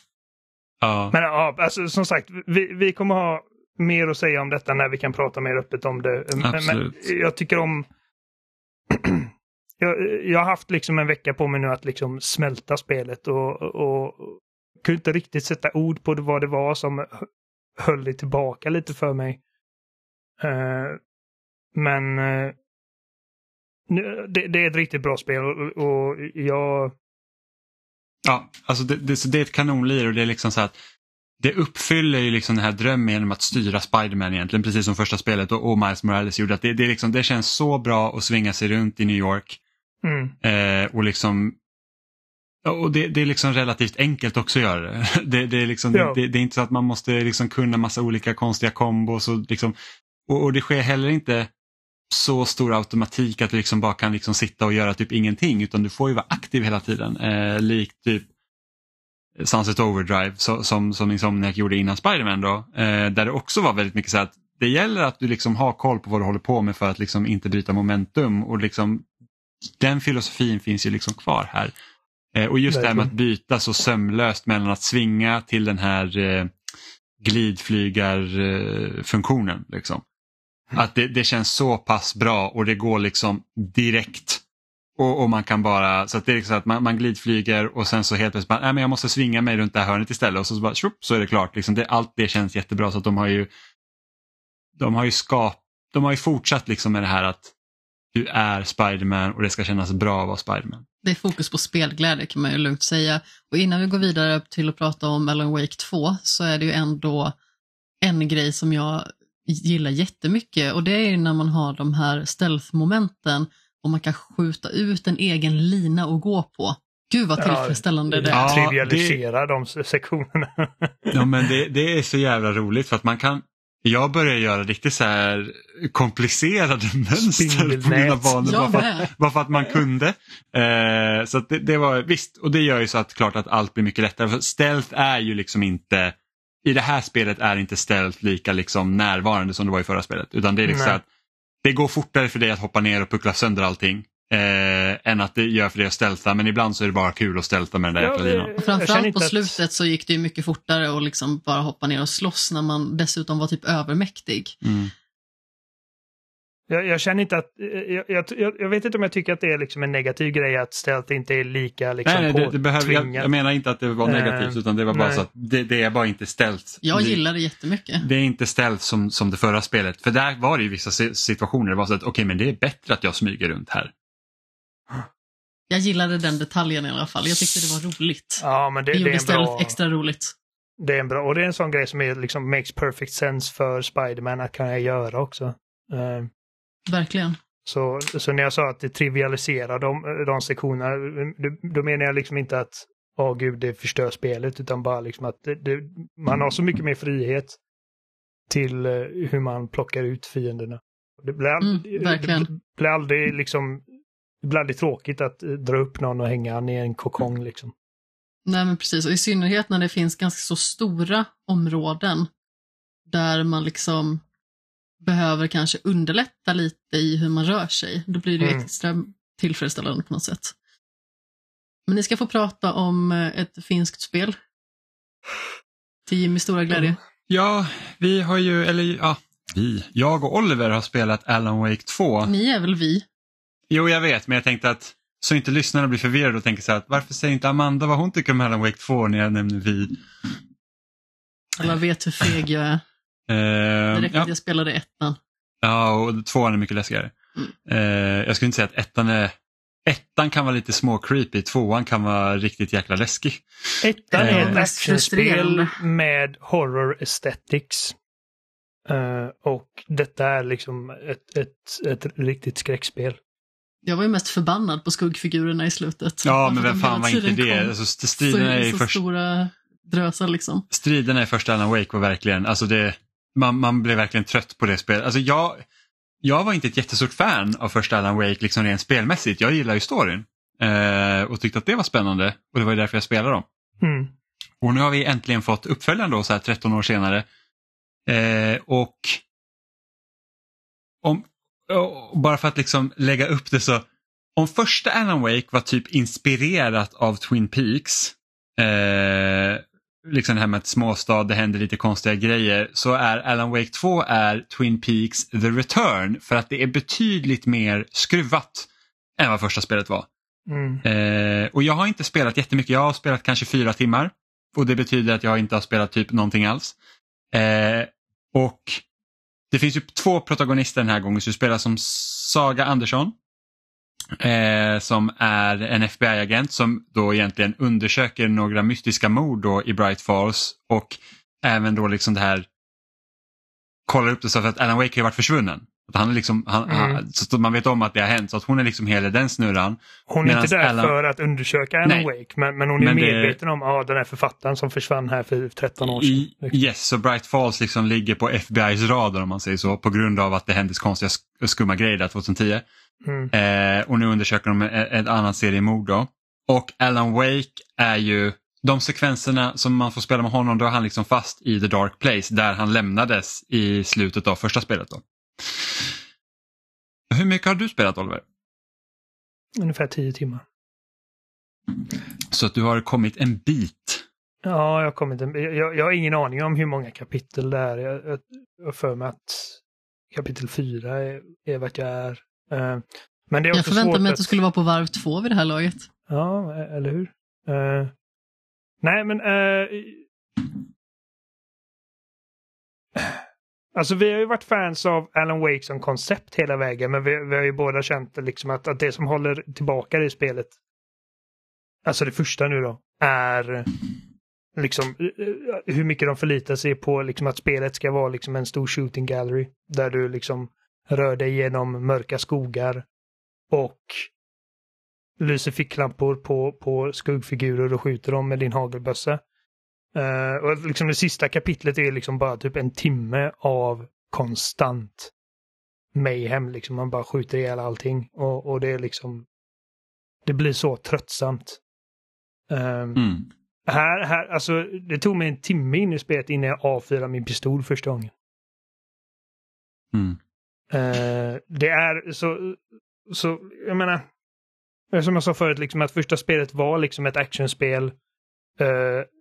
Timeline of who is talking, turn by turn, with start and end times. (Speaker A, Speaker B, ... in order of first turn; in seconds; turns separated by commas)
Speaker A: 0.8-1.1, Speaker B: 1.1-7.9, Speaker A: 6.4-6.9, Speaker B: 8.9-17.3, Speaker B: 17.8-19.4, Speaker B: 20.4-21.0, Speaker B: 21.8-22.6, Speaker B: 23.9-26.9, Speaker A: 28.2-30.8, Speaker A: 31.4-39.6, Speaker B: 40.0-40.3, Speaker A: 40.4-41.6, Speaker A: 42.6-49.8, Speaker B: 45.9-46.2, Speaker A: 50.3-51.5, Speaker A: 52.1-58.3, Speaker A: 59.4-69.1, Speaker A: 69.8-71.7, Speaker A: 72.3-76.5, Speaker B: 72.7-73.1, Speaker A: 77.2-80.0, Speaker A: 80.7-84.4, Speaker A: 85.0-93.5, Speaker A: 94.8-97.5, Speaker A: 98.1-100.8, Speaker C: 101.0-107.4, Speaker C: 108.0-118.6, Speaker B: 117.4-121.5, Speaker A: 118.3-119.2, Speaker A: 121.1-141.1, Speaker B: 127.2-128.9, Speaker C: 128.4-129.1, Speaker B: 140.7-141.0, Speaker A: 141.6-148.5, Speaker B: 148.0-149.6, Speaker C: 148.6-154.6, Speaker A: 154.6-154.9, Speaker B: 156.7-163.3, Speaker A: 162.1-167.2, Speaker B: 164.1-165.2, Speaker C: 166.8-168.1, Speaker A: 168.0-173.9, Speaker C: 175.7-180.3, Speaker B: 178.4-179.8, Speaker B: 180.8-186.3, Speaker C: 186.9-187.4, Speaker B: 187.7-197.6, Speaker B: 198.5-203.8, Speaker C: 201.6-202.5, Speaker B: 204.4-207.7, Speaker C: 208.5-212.3, Speaker C: 213.1-214.2, Speaker C: 215.0-220.6, Speaker B: 218.4-218.7, Speaker C: 221.9-224.4, Speaker C: 226.1-227.0, Speaker A: 227.3-232.3, Speaker C: 232.2-233.1, Speaker A: 233.7-240.0, Speaker C: 241.6-242.8, Speaker A: 243.3-244.3, Speaker C: 243.9-245.2, Speaker A: 245.6-247.1, Speaker A: 247.7-249.3, Speaker A: 249.9-254.6, Speaker B: 253.8-258.0, Speaker C: 254.1-255.8, Speaker B: 258.9-263.2, Speaker C: 263.9-270.7, Speaker A: 266.2-269.0, Speaker A: 270.7-275.6, Speaker A: 276.2-283.5, Speaker B: 283.8-284.1, Speaker A: 284.6-287.3, Speaker A: 288.1-289.2, Speaker A: 291.0-310.1, Speaker B: 310.5-310.8, Speaker A: 310.8-316.8, Speaker A: 317.3-318.8, Speaker A: 319.5-323.1, Speaker A: 324.2-332.5, Speaker A: 333.9-340.9, Speaker B: 336.7-337.0, Speaker B: 340.1-346.6, Speaker A: 342.8-343.4, Speaker A: 345.8-352.6, Speaker B: 353.0-353.3, Speaker A: 353.3-365.9, Speaker A: 367.1-368.2, Speaker B: 369.6-370.4, Speaker A: 372.3-374.1, Speaker B: 374.4-379.6, Speaker B: 380.1-384.4, Speaker C: 383.5-385.9, Speaker B: 386.1-387.9, Speaker B: 388.8-390.4, Speaker B: 393.0-393.2, Speaker B: 393.8-400.5, Speaker B: 401.9-403.7, Speaker B: 404.6-412.9, Speaker B: 413.5-414.1, Speaker B: 415.2-419.2, Speaker B: 419.9-425.1, Speaker B: 425.9-429.3, Speaker B: 430.3-431.6, Speaker B: 432.5-433.1, Speaker A: 433.0-433.3, Speaker B: 433.7-438.1, Speaker A: 439.9-440.2, Speaker B: 440.7-444.0, Speaker B: 444.9-447.9, Speaker B: 448.6-449.1